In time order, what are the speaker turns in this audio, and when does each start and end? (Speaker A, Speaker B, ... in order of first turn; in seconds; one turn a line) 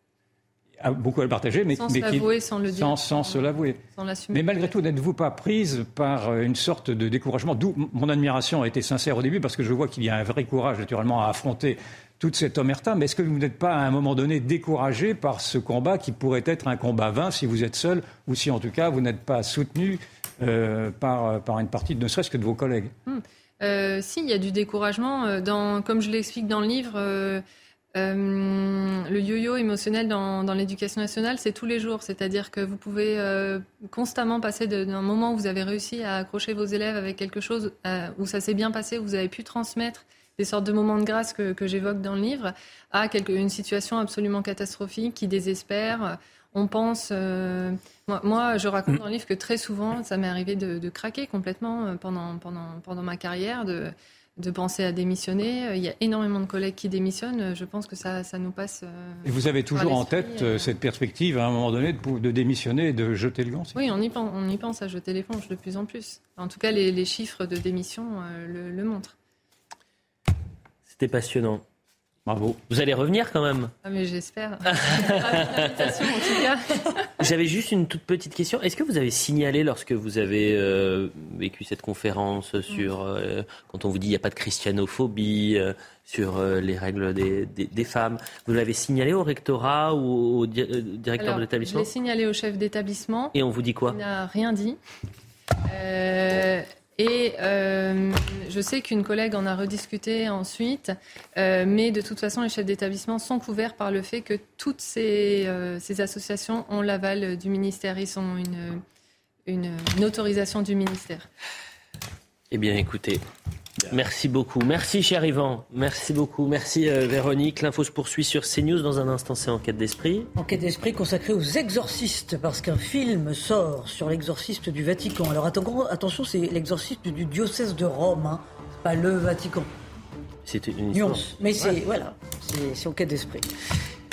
Speaker A: 0.8-3.8
Speaker B: 1.8-4.7
Speaker A: 4.3-22.9
Speaker B: 23.1-60.7
Speaker A: 59.2-63.8
Speaker B: 63.7-69.1
Speaker C: 70.8-71.6
Speaker A: 72.3-72.6
Speaker C: 72.7-73.7
Speaker B: 73.8-77.1
Speaker C: 74.7-75.6
Speaker C: 77.2-91.9
Speaker B: 91.2-93.3
Speaker C: 93.3-94.0
Speaker B: 93.9-94.8
Speaker B: 95.6-108.8
Speaker B: 109.5-111.3
Speaker C: 112.5-113.2
Speaker C: 113.9-120.3
Speaker D: 120.3-129.7
Speaker C: 130.4-131.2
Speaker D: 130.9-133.5